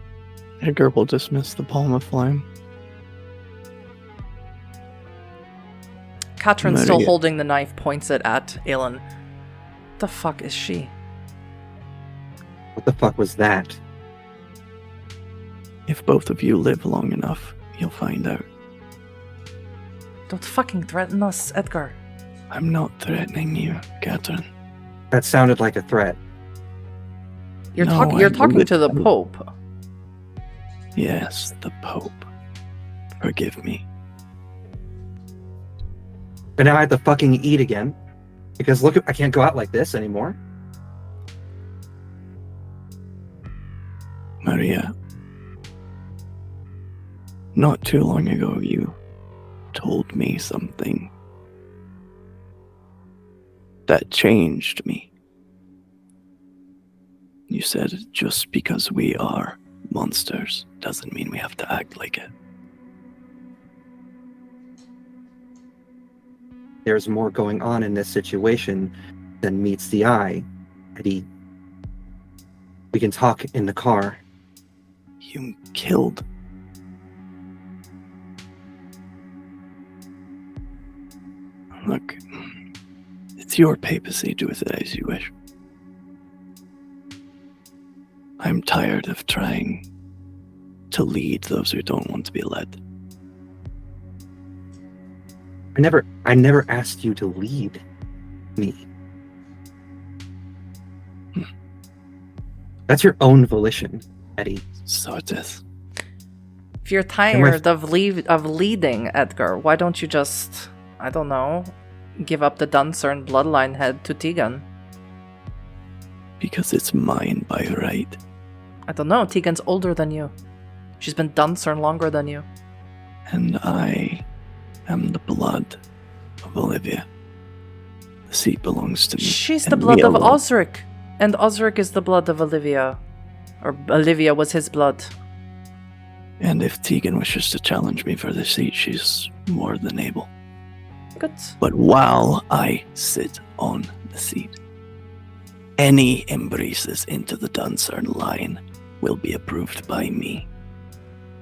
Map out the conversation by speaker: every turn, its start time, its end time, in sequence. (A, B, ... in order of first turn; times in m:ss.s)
0:00.6-0:02.5 A
0:06.4-0:09.0 B
0:06.6-0:07.1 A
0:10.0-0:10.9 B
0:12.8-0:13.8 C
0:15.9-0:18.4 A
0:20.3-0:22.0 B
0:22.5-0:24.5 A
0:25.1-0:26.2 C
0:27.8-0:29.5 B
0:27.8-0:29.0 A
0:31.0-0:32.3 A
0:33.2-0:33.8 A
0:36.6-0:38.0 C
0:38.6-0:40.4 C
0:44.4-0:44.9 A
0:47.6-0:49.0 A
0:49.7-0:51.1 A
0:53.9-0:55.1 A
0:57.5-1:02.3 A
1:06.8-1:11.3 C
1:12.9-1:14.2 C
1:15.2-1:16.2 A
1:21.8-1:22.5 A
1:23.4-1:25.3 A
1:28.4-1:29.8 A
1:30.9-1:32.8 A
1:35.8-1:37.8 C
1:38.6-1:38.9 C
1:42.9-1:44.6 C
1:44.9-1:45.6 A
1:46.8-1:54.6 B
1:47.3-1:47.6 C
1:56.4-1:58.2 A
1:58.9-2:00.3 B
2:01.0-2:02.4 B
2:03.3-2:04.2 A
2:04.9-2:05.8 A
2:06.4-2:07.0 A
2:08.3-2:10.4 A
2:09.2-2:13.0 B
2:13.6-2:15.1 B
2:16.4-2:20.3 A
2:21.2-2:21.6 B
2:21.6-2:24.5 A
2:25.8-2:30.5 A